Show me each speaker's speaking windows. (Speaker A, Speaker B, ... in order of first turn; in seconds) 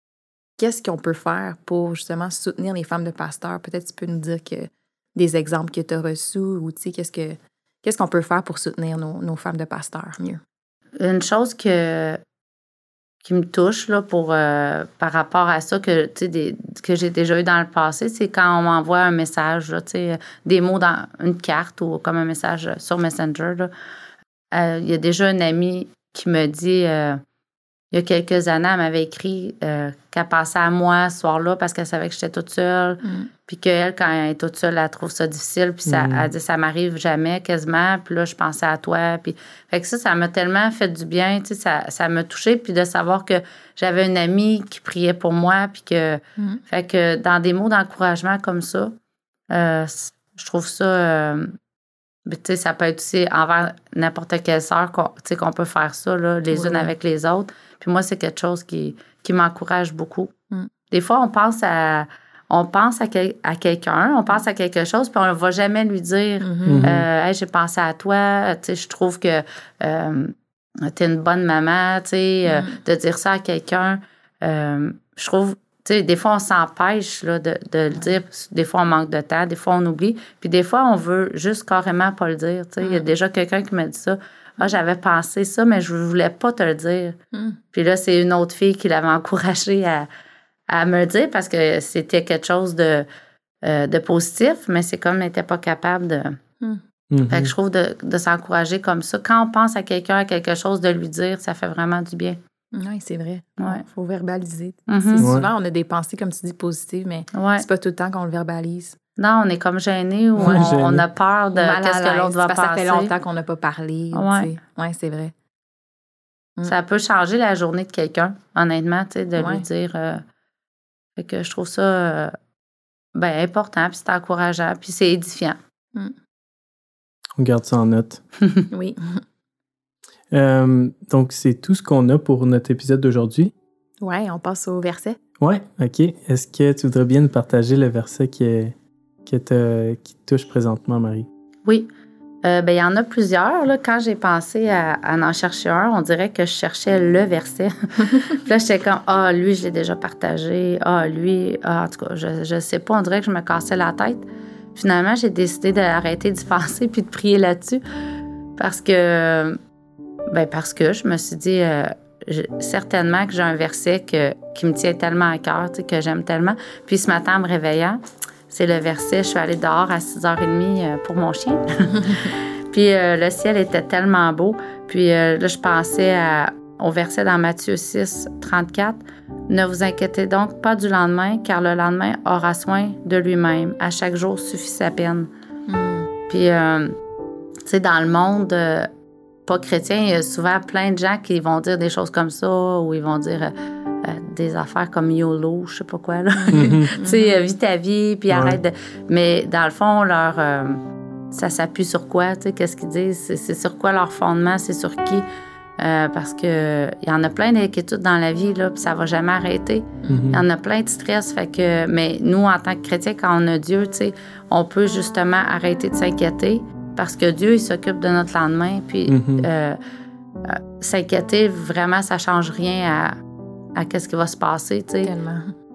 Speaker A: 0.6-10.4, 33.0-33.3, 56.5-56.9, 66.4-67.0, 72.5-72.8, 82.8-83.1, 87.3-87.6, 102.7-109.0, 111.6-115.3, 119.4-119.7, 128.7-129.2, 134.0-135.2, 185.7-186.1, 196.4-197.4, 210.0-210.3, 225.0-225.5
Speaker B: 11.0-12.2, 13.2-23.7, 24.5-27.2, 27.9-49.0, 49.5-51.5, 52.3-60.3, 60.9-87.2, 87.7-90.1, 90.7-93.1, 93.6-96.4, 97.3-102.4, 104.9-105.3, 107.3-107.7, 109.2-113.1, 114.1-114.5, 116.7-120.2, 121.2-122.4, 123.2-125.6, 142.4-157.8, 158.6-159.6, 160.3-185.3, 186.3-187.0, 187.7-188.9, 189.5-205.3, 205.8-219.8, 220.4-223.2, 223.8-225.1
Speaker C: 35.9-36.3, 66.7-67.1, 97.1-97.5, 105.2-105.5, 110.4-111.1, 127.4-128.2, 130.3-133.5, 135.4-138.8, 139.3-141.3, 196.5-196.9, 198.3-198.6, 210.1-210.4, 219.1-219.5